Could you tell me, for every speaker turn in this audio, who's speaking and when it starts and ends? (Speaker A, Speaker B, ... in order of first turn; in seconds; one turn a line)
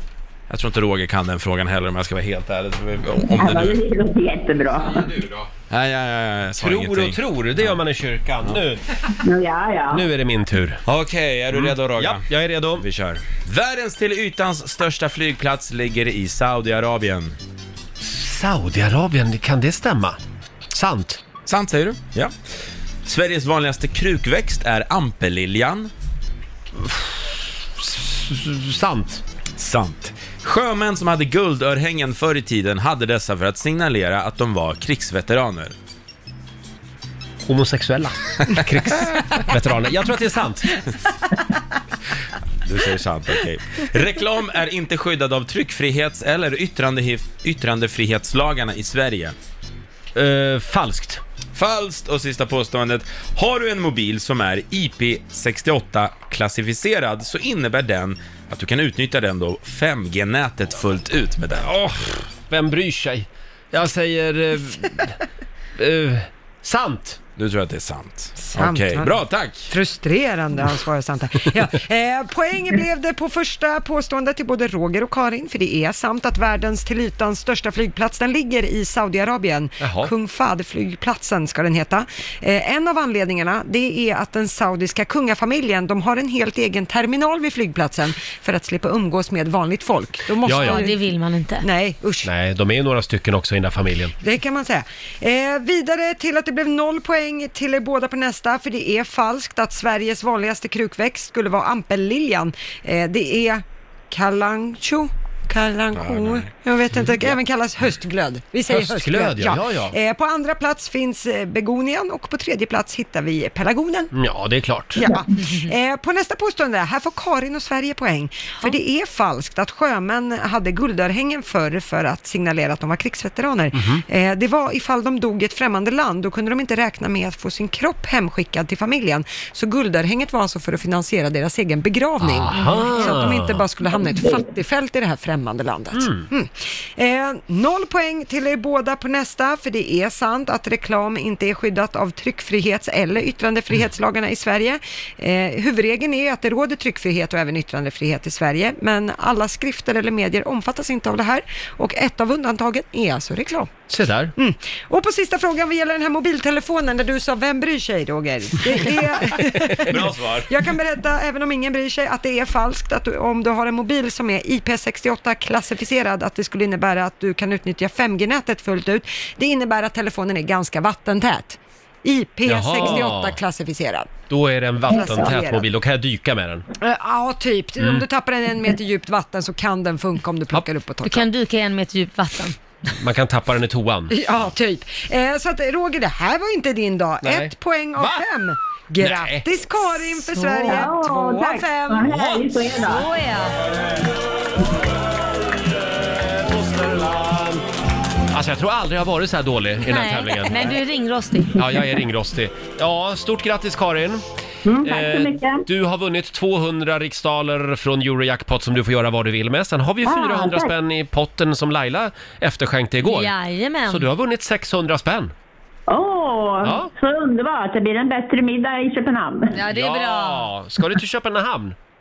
Speaker A: 0.5-3.8
Speaker B: 3.3-5.1
Speaker C: 4.8-5.4
Speaker A: 5.7-7.7
Speaker C: 6.6-8.8
Speaker B: 9.2-10.1
Speaker C: 9.9-10.8
Speaker A: 10.8-12.2
Speaker C: 11.5-12.8
Speaker A: 12.8-17.4
Speaker C: 18.0-20.2
Speaker C: 20.7-21.2
Speaker A: 21.4-22.3
Speaker A: 23.1-25.9
Speaker C: 26.8-29.2
Speaker A: 29.6-35.7
Speaker C: 37.5-40.8
Speaker A: 42.6-49.3
Speaker C: 50.1-51.2
Speaker A: 51.5-61.7
Speaker C: 61.6-65.2
Speaker C: 65.8-67.2
Speaker A: 67.4-69.7
Speaker D: 68.4-69.2
Speaker D: 69.7-91.1
Speaker C: 79.8-80.1
Speaker C: 90.4-90.9
Speaker E: 90.5-91.7
Speaker D: 91.6-92.3
Speaker C: 92.2-94.1
Speaker D: 94.2-114.1
Speaker A: 105.9-106.5
Speaker C: 108.7-109.9
Speaker C: 114.1-115.0
Speaker D: 115.0-153.7
Speaker C: 123.7-124.0
Speaker C: 132.2-133.6
Speaker C: 135.9-136.3
Speaker C: 153.9-154.3
Speaker D: 154.3-174.1
Speaker C: 159.3-159.9
Speaker A: 159.9-160.5
Speaker C: 172.4-173.4
Speaker C: 174.3-176.7
Speaker D: 174.9-175.6
Speaker D: 176.8-181.3
Speaker C: 177.8-178.0
Speaker E: 181.0-182.5
Speaker C: 183.0-184.2
Speaker D: 184.1-192.1
Speaker C: 187.2-188.2
Speaker C: 189.0-189.4
Speaker E: 190.3-190.9
Speaker B: 190.5-193.1
Speaker C: 192.1-192.4
Speaker E: 192.8-193.6
Speaker C: 195.8-197.6
Speaker C: 198.3-200.7
Speaker E: 199.8-201.8
Speaker C: 201.6-204.2
Speaker B: 204.7-205.6
Speaker C: 204.8-213.3
Speaker B: 210.0-210.7
Speaker E: 213.0-214.1
Speaker C: 213.9-215.3
Speaker B: 215.9-219.5
Speaker C: 216.6-216.9
Speaker E: 219.5-220.5
Speaker C: 219.7-221.7